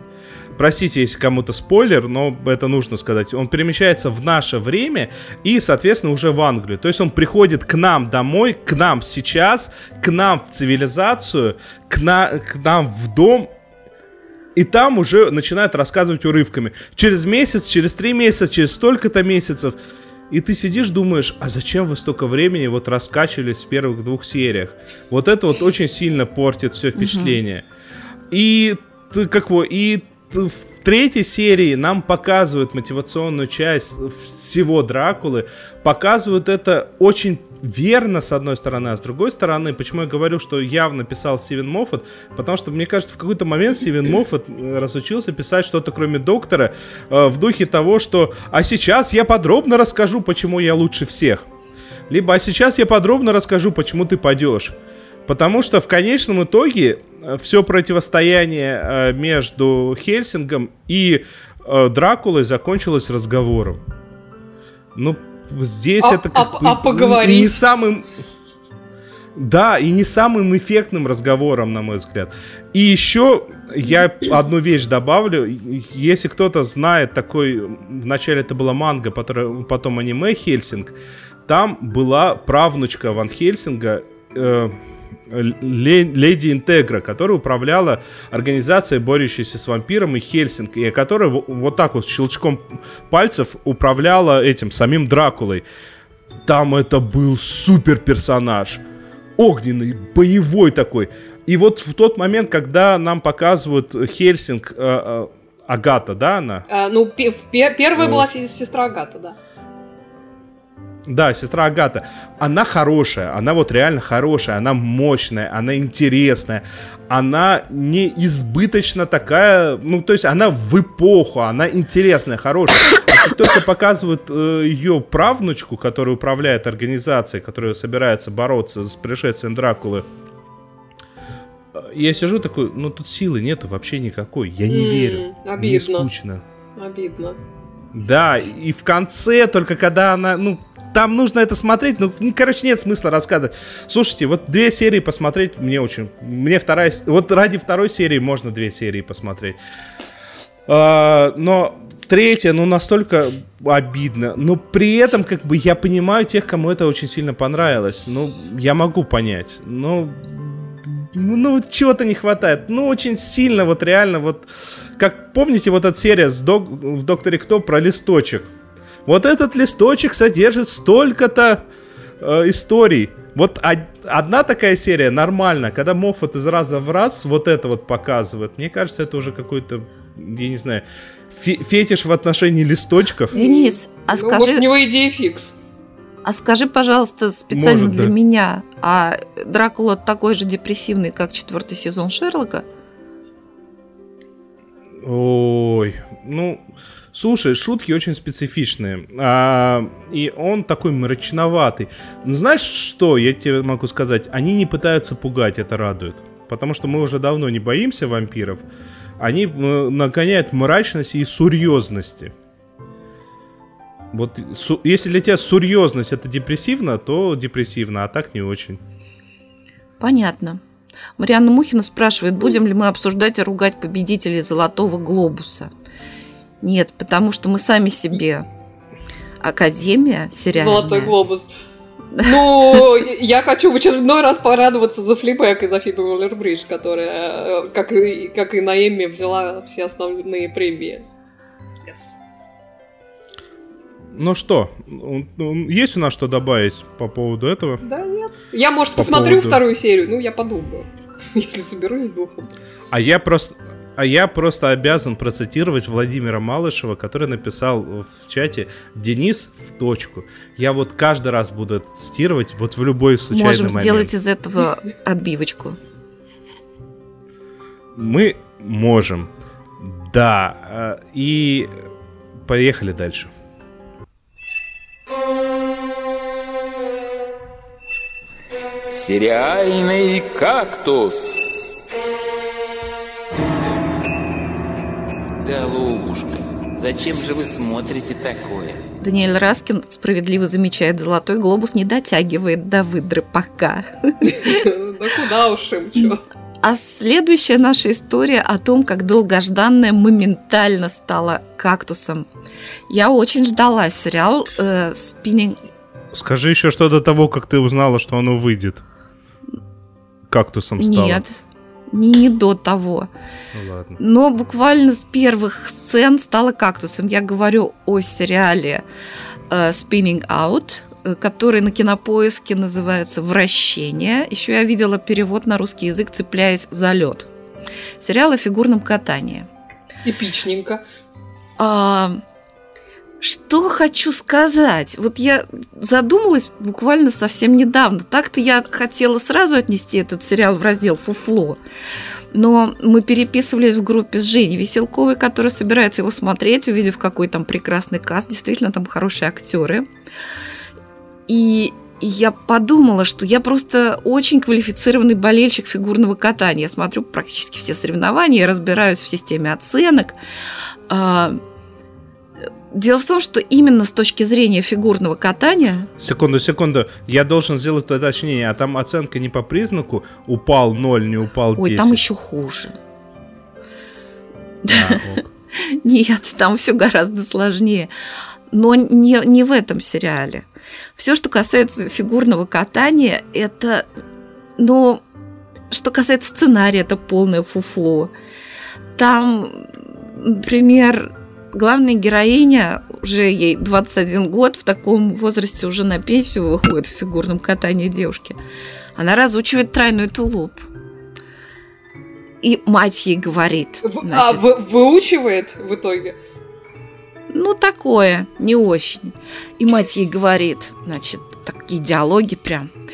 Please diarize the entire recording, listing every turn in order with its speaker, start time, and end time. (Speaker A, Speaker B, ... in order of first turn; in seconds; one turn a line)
Speaker A: 0.6-13.5
Speaker A: 14.5-19.7
Speaker A: 20.3-27.6
Speaker B: 26.9-27.4
Speaker A: 28.3-51.4
Speaker A: 52.1-54.7
Speaker A: 55.3-63.8
Speaker A: 64.9-68.1
Speaker C: 66.0-67.6
Speaker A: 69.3-80.9
Speaker A: 81.5-84.8
Speaker A: 85.3-95.6
Speaker A: 96.5-98.8
Speaker A: 99.4-106.6
Speaker C: 106.7-109.4
Speaker A: 108.0-108.3
Speaker A: 111.1-130.1
Speaker A: 131.7-136.4
Speaker C: 134.7-136.1
Speaker C: 136.8-137.4
Speaker A: 137.9-149.6
Speaker A: 150.7-168.5
Speaker A: 169.1-171.6
Speaker A: 172.2-183.3
Speaker B: 183.3-184.7
Speaker C: 183.3-185.5
Speaker B: 186.2-192.6
Speaker A: 187.5-188.1
Speaker A: 195.0-196.6
Speaker A: 197.1-208.6
Speaker A: 209.2-212.3
Speaker A: 214.1-218.8
Speaker B: 220.0-220.6
Speaker B: 221.2-225.7
Speaker B: 226.6-228.4
Speaker B: 229.4-231.1
Speaker C: 230.5-231.5
Speaker B: 232.2-232.8
Speaker C: 232.2-241.0
Speaker C: 241.9-242.2
Speaker A: 244.1-247.8
Speaker C: 247.8-252.5
Speaker A: 248.9-249.6
Speaker A: 252.9-264.1
Speaker B: 263.3-265.8
Speaker A: 267.9-271.7
Speaker A: 272.4-273.3
Speaker D: 278.9-281.7
Speaker D: 285.4-288.8
Speaker B: 289.0-294.6
Speaker C: 294.2-296.2
Speaker B: 296.6-302.3
Speaker B: 302.9-305.6
Speaker A: 306.1-308.8
Speaker A: 310.3-311.2
Speaker B: 310.8-313.1
Speaker A: 313.5-314.0
Speaker B: 314.0-318.8
Speaker B: 319.5-327.3
Speaker B: 328.0-329.5
Speaker C: 330.0-330.8
Speaker B: 331.6-332.2
Speaker B: 333.2-341.6
Speaker B: 342.3-349.9
Speaker B: 351.3-360.1
Speaker B: 360.9-361.4
Speaker B: 362.7-365.9
Speaker A: 366.0-372.0
Speaker B: 371.6-372.8
Speaker B: 374.6-375.0
Speaker A: 374.7-375.3
Speaker B: 375.5-377.9
Speaker B: 378.5-383.9
Speaker B: 384.6-385.0
Speaker B: 385.7-388.1
Speaker B: 388.9-398.4
Speaker B: 398.9-400.7
Speaker B: 402.4-404.4
Speaker C: 403.8-406.1
Speaker B: 407.3-412.7